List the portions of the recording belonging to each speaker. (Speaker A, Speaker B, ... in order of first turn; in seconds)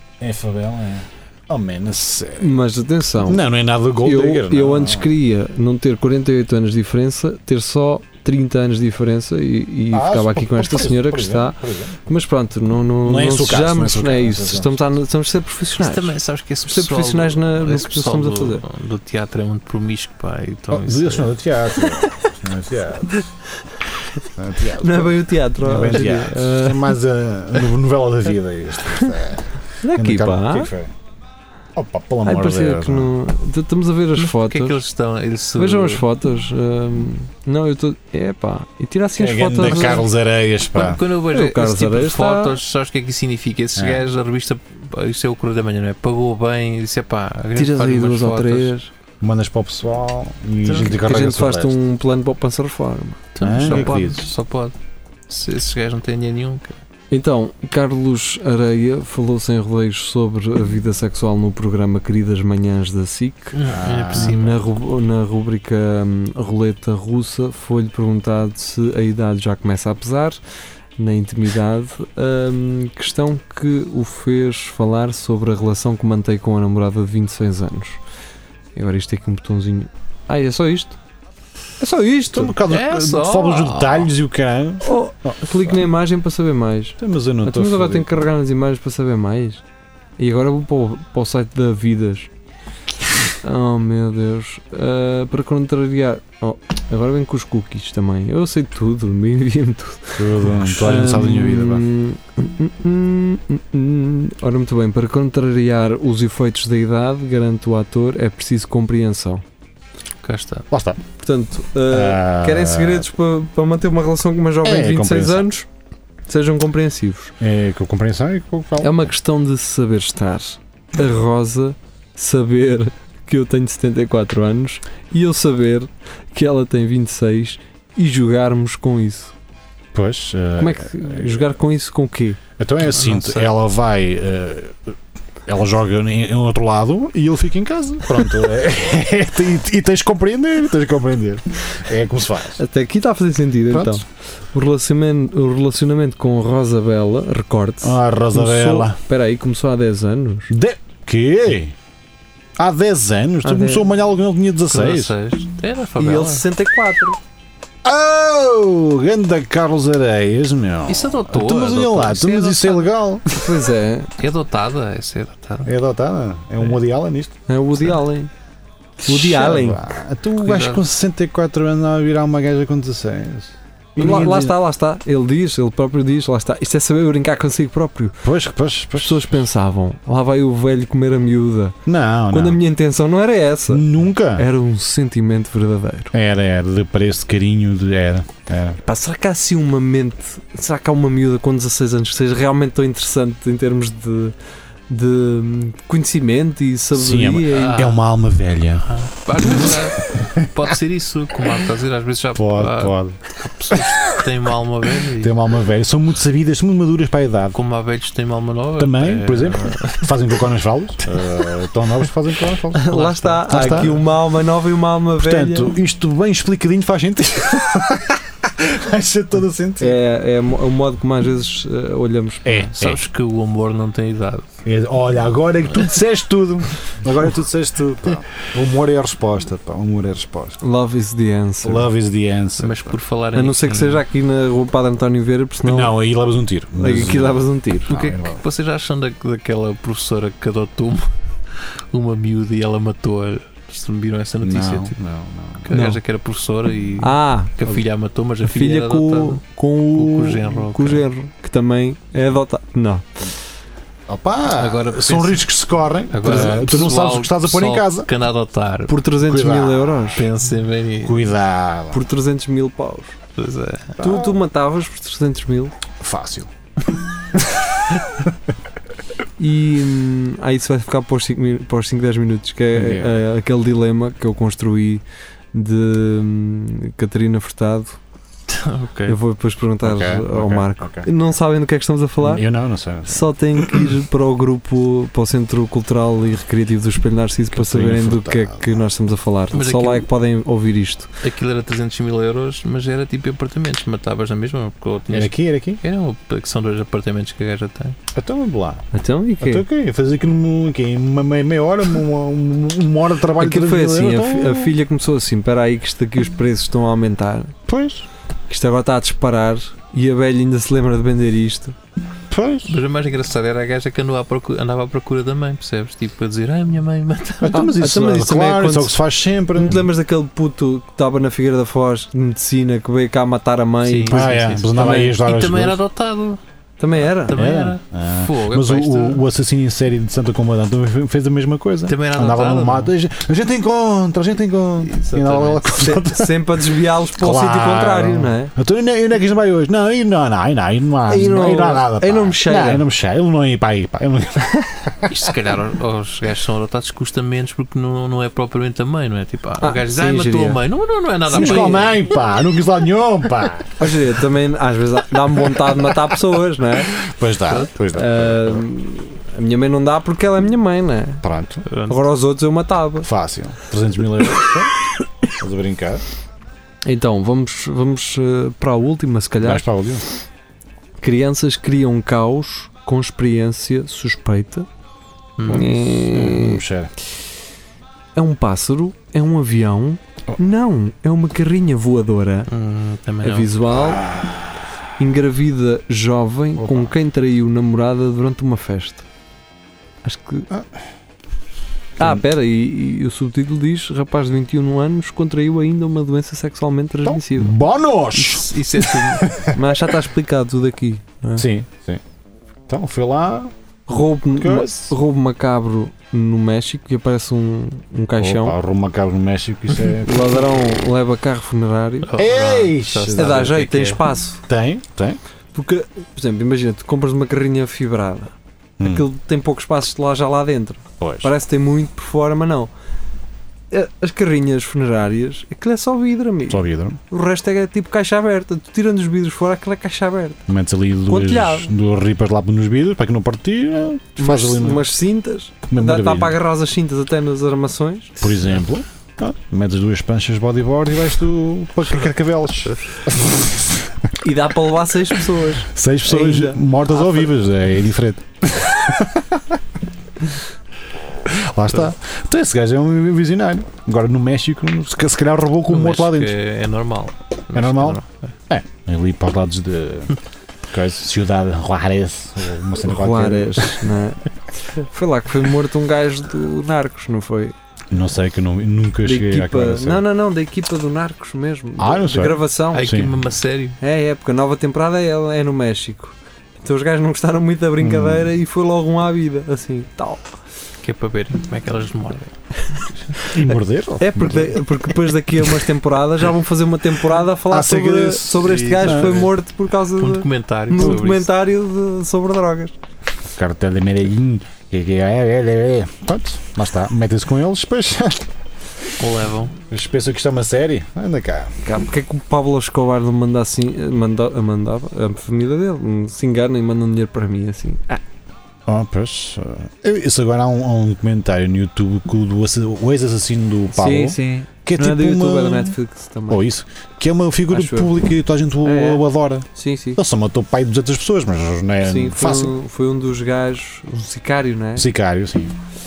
Speaker A: 0.2-2.6, 3.2-5.1, 9.9-12.0, 13.0-14.9, 20.7-23.2, 24.2-30.9, 31.8-33.1, 39.2-41.0, 43.8-44.0, 49.2-51.8, 53.4-54.2, 63.7-64.5, 82.3-85.9, 87.0-88.2, 100.2-101.9, 110.7-111.0, 111.9-113.1, 114.6-115.5, 117.4-119.1, 129.9-131.5, 132.6-134.9, 135.5-142.6, 143.7-144.0, 147.8-149.0, 150.5-151.8, 152.6-155.2, 157.8-163.6, 165.7-167.3, 169.0-174.6, 178.2-179.5, 181.9-182.6, 183.7-184.5, 186.1-188.8, 196.9-200.3, 202.3-203.2, 205.2-207.6, 208.8-212.9, 213.5-214.0, 215.2-220.0, 222.4-223.0, 224.6-230.6, 231.6-233.0, 235.6-238.4, 244.4-245.7, 254.1-258.1, 259.2-260.2, 261.0-262.1, 264.0-264.4, 266.0-266.5, 267.4-268.0, 272.7-273.2, 279.8-281.1, 282.2-283.9, 287.5-288.7, 295.1-295.8, 298.1-298.9, 299.4-304.8, 307.7-308.1, 312.3-312.8, 317.4-319.9, 324.1-325.8, 327.3-336.6, 337.2-345.2, 351.3-353.9, 355.4-356.0, 357.0-358.7, 361.2-361.6, 363.0-364.7, 365.3-366.0, 369.4-370.0, 375.5-376.9, 383.7-384.4, 386.6-386.9, 397.0-399.9, 401.4-402.0, 402.7-403.5, 404.4-404.9, 408.2-410.5, 412.2-413.7, 414.5-415.2, 418.8-419.1, 421.0-421.3, 426.5-427.0, 430.5-434.9, 435.7-436.4, 438.2-443.8, 445.6-449.6, 451.2-456.4, 457.5-460.2, 460.7-463.9, 467.9-470.1, 471.8-473.2, 477.8-478.3, 483.2-485.5, 487.4-489.3, 490.8-491.0, 493.4-498.2, 499.7-501.5, 508.7-522.6, 524.8-525.5
Speaker B: 2.4-3.4, 4.0-18.6, 24.7-26.9, 29.8-30.7, 32.2-34.8, 35.6-40.0, 41.3-42.6, 47.5-48.9, 51.0-53.2, 57.1-63.6, 64.1-70.4, 71.0-78.0, 78.8-81.0, 81.8-82.6, 84.8-89.6, 90.2-92.3, 93.4-109.4, 111.2-115.7, 116.3-117.3, 118.8-129.3, 130.6-132.4, 142.6-150.5, 153.4-153.9, 156.0-157.2, 163.3-164.1, 167.5-168.3, 169.0-169.8, 174.0-178.2, 178.9-181.8, 182.3-186.1, 188.8-194.3, 194.9-197.8, 212.7-215.7, 219.8-222.7, 230.6-231.9, 233.3-236.0, 236.8-238.0, 245.7-246.0, 247.0-247.6, 248.4-253.1, 258.9-260.3, 261.9-263.2, 264.0-265.7, 269.4-278.0, 279.1-282.4, 283.1-291.1, 298.9-299.7, 303.4-307.6, 308.5-311.8, 317.5-319.0, 319.6-324.3, 326.8-327.4, 335.8-338.5, 341.1-342.9, 349.6-350.6, 351.3-351.8, 353.8-357.0, 357.9-361.2, 361.9-363.1, 366.9-369.7, 371.0-374.7, 375.5-376.6, 378.1-382.5, 383.2-384.1, 385.0-389.0, 390.0-390.5, 392.0-397.6, 399.5-401.5, 403.9-408.6, 410.0-412.2, 413.1-414.4, 415.5-422.7, 423.7-430.4, 431.1-431.7, 434.2-438.4, 444.2-447.3, 462.8-467.6, 469.0-473.0, 473.8-480.3, 483.5-492.8, 501.6-508.0, 513.7-516.4, 517.5-517.9, 518.6-520.0, 521.8-524.9
Speaker C: 15.8-21.3, 34.2-36.0, 39.6-40.0, 40.7-48.7, 50.6-51.0, 53.4-54.8, 55.3-56.8, 63.5-64.7, 82.7-84.1, 110.2-110.7, 132.8-133.5, 154.7-156.4, 160.9-162.9, 164.2-165.7, 170.4-170.8, 197.6-198.0, 198.9-205.5, 207.5-210.2, 211.0-211.6, 212.9-214.1, 222.8-224.5, 232.6-234.0, 237.9-245.0, 245.6-249.4, 249.9-251.1, 254.5-255.5, 256.1-259.0, 260.2-261.2, 263.4-263.9, 278.5-279.2, 289.5-290.1, 291.2-298.0, 312.7-317.7, 323.8-326.4, 326.9-329.2, 331.9-332.9, 334.8-335.8, 345.1-352.0, 361.7-362.0, 375.4-375.8, 382.5-383.5, 398.1-399.4, 412.0-414.0, 455.7-458.3, 472.7-473.8, 480.8-483.2, 488.4-489.3, 490.0-491.3, 499.0-499.5